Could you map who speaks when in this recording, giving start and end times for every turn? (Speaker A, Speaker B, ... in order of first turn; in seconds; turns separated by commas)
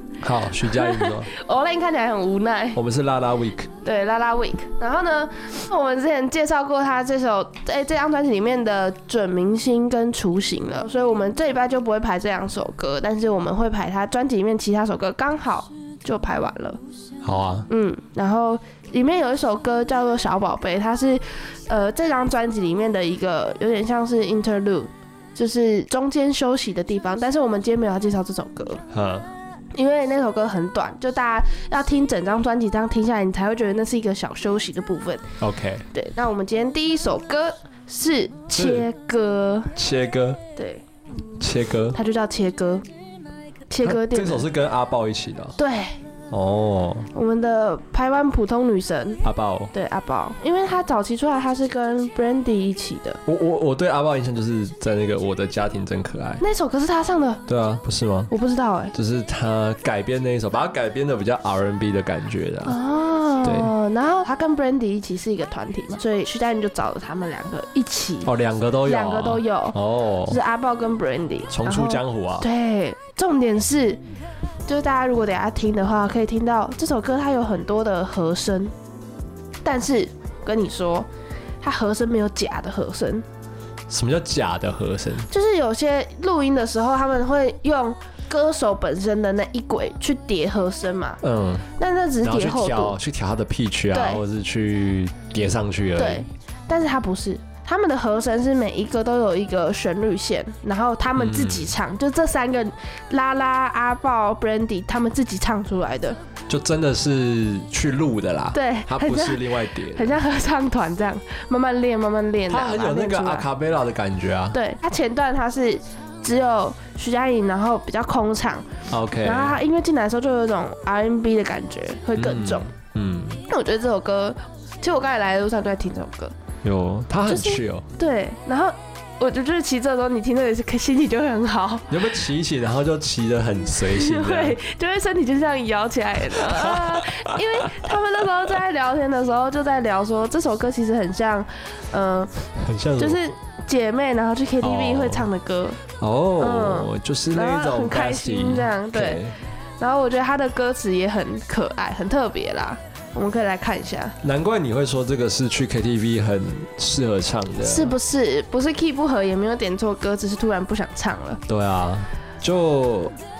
Speaker A: 0.2-1.3, Speaker B: 0.7-2.8, Speaker A: 2.7-3.7, Speaker B: 3.8-16.8, Speaker A: 17.2-17.7, Speaker B: 17.7-28.8, Speaker A: 28.9-29.3, Speaker B: 29.7-35.2, Speaker A: 35.4-35.9, Speaker B: 35.9-39.7, Speaker A: 38.5-38.9, Speaker A: 39.7-40.4, Speaker B: 40.5-40.8, Speaker A: 41.4-42.0, Speaker B: 41.9-42.8, Speaker B: 43.7-44.5, Speaker A: 43.8-45.6, Speaker B: 45.6-46.0, Speaker A: 46.3-47.1, Speaker B: 47.1-53.2, Speaker A: 49.2-49.7, Speaker A: 53.3-56.4, Speaker B: 56.4-57.4, Speaker A: 57.5-58.3, Speaker B: 58.3-58.9, Speaker A: 58.9-62.8, Speaker B: 62.7-68.3, Speaker A: 63.4-63.7, Speaker A: 68.2-70.4, Speaker B: 68.8-74.0, Speaker A: 71.5-72.5, Speaker B: 74.7-78.7, Speaker B: 79.6-81.1, Speaker B: 81.6-83.2, Speaker A: 83.9-85.3, Speaker B: 85.3-91.2, Speaker A: 91.2-91.7, Speaker B: 91.8-93.0, Speaker A: 92.2-96.3, Speaker B: 93.9-94.2, Speaker B: 96.0-106.2, Speaker A: 101.2-101.7, Speaker A: 106.5-110.2, Speaker B: 108.5-113.5, Speaker A: 112.5-114.6, Speaker B: 114.5-118.7, Speaker A: 118.9-119.6, Speaker B: 119.2-122.7, Speaker A: 122.2-123.4, Speaker B: 123.5-126.3, Speaker A: 126.6-127.9, Speaker B: 127.3-131.9, Speaker A: 131.9-134.6, Speaker B: 133.8-142.4, Speaker A: 136.3-137.8, Speaker A: 142.6-143.2, Speaker B: 143.0-145.8, Speaker A: 144.6-145.3, Speaker A: 146.0-149.4, Speaker B: 146.4-149.2, Speaker B: 149.8-154.2, Speaker A: 154.2-157.9, Speaker B: 157.6-161.4, Speaker A: 161.5-163.2